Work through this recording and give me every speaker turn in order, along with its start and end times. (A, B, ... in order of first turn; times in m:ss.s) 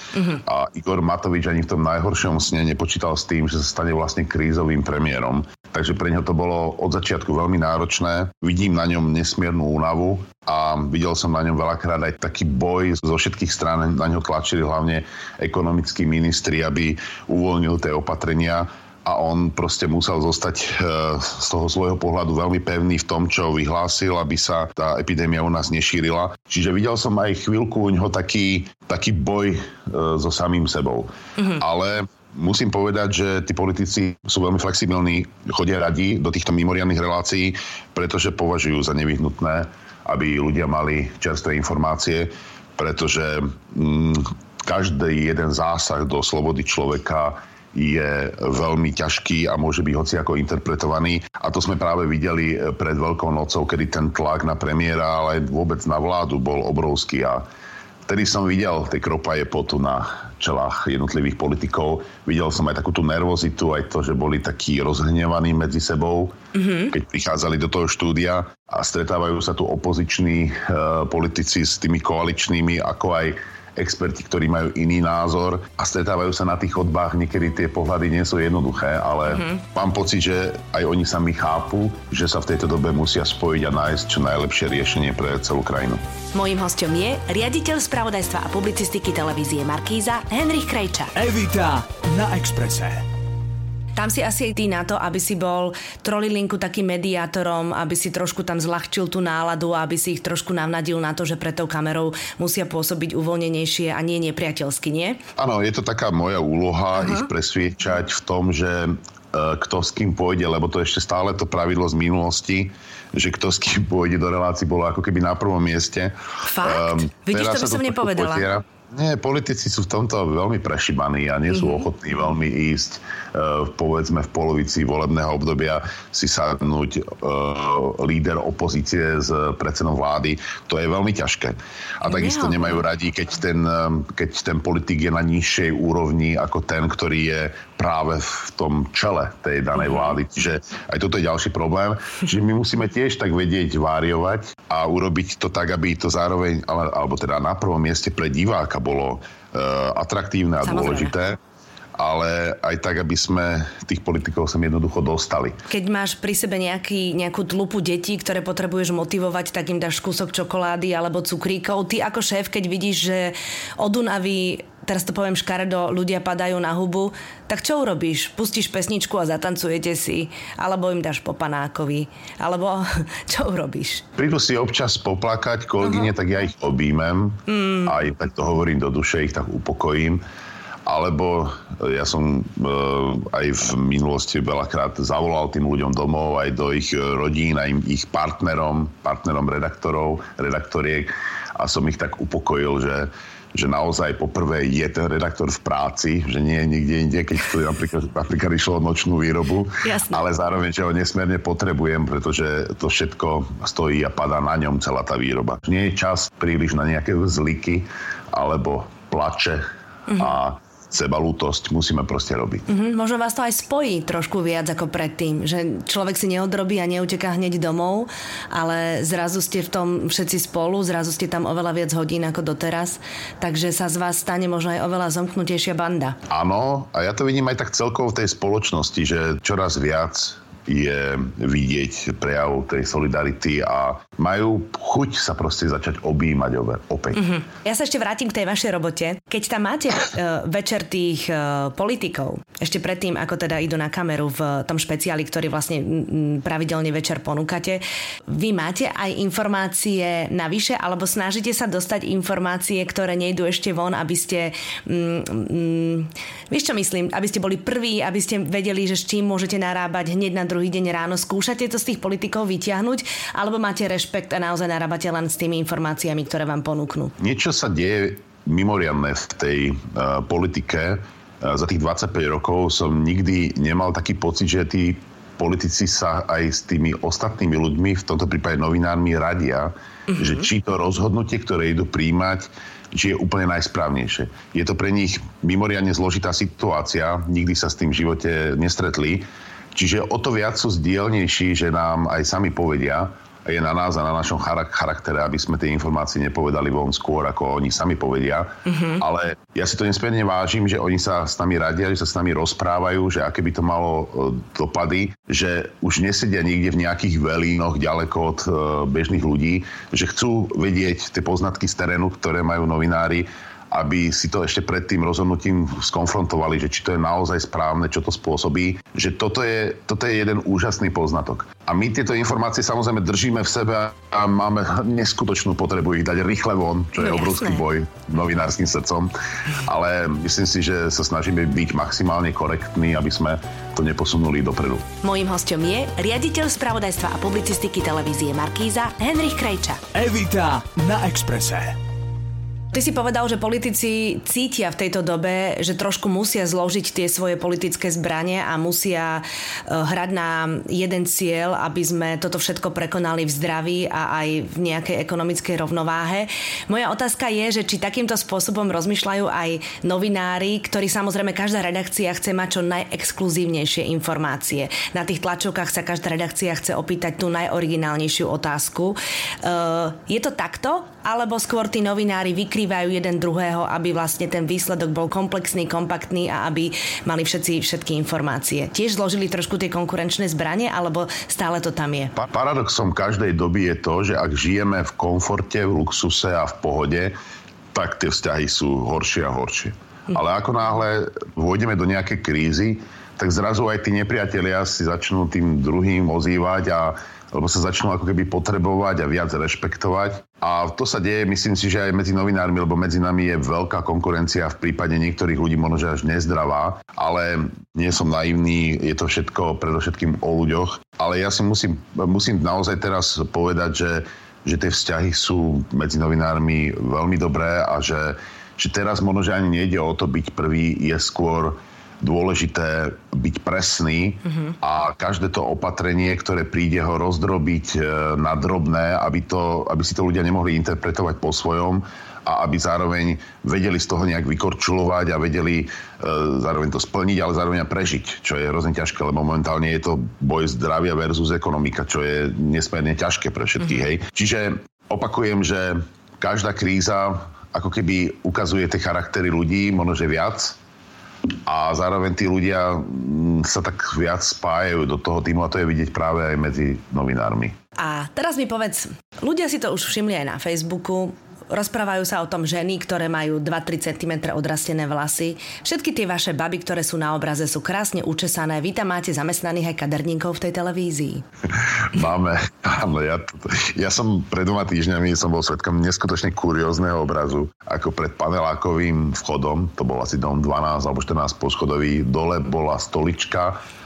0:00.1-0:00.4 A
0:00.4-0:57.4 B
0:58.1-1:06.4 B
1:06.5-1:06.9 A
1:06.9-1:26.0 B
1:19.3-1:19.6 A
1:26.3-1:31.1 A
1:31.2-1:33.0 C
1:34.0-1:45.2 A
1:45.4-2:31.4 B
1:47.0-1:47.3 A
1:56.5-1:58.5 A
2:01.5-2:01.8 A
2:12.0-2:12.8 A
2:19.8-2:20.2 A
2:30.6-2:31.1 A
2:32.0-2:35.6 B
2:35.7-2:54.0 A
2:54.2-3:00.2 B
2:57.5-2:57.9 A
3:00.9-3:29.6 B
3:19.8-3:20.2 A
3:30.1-3:30.4 A
3:30.2-3:32.6 B
3:32.7-3:46.2 A
3:46.3-3:57.3 B
3:57.2-4:27.1 A
4:27.2-5:34.9 B
4:40.1-4:40.4 A
4:58.7-4:59.0 A
5:27.0-5:27.6 A
5:35.0-5:39.8 A
5:39.9-5:41.8 C
5:42.7-6:22.1 A
6:22.2-6:27.1 B
6:27.7-7:30.6 B
7:31.5-7:37.5 B
7:37.8-7:51.2 A
7:51.5-8:03.6 B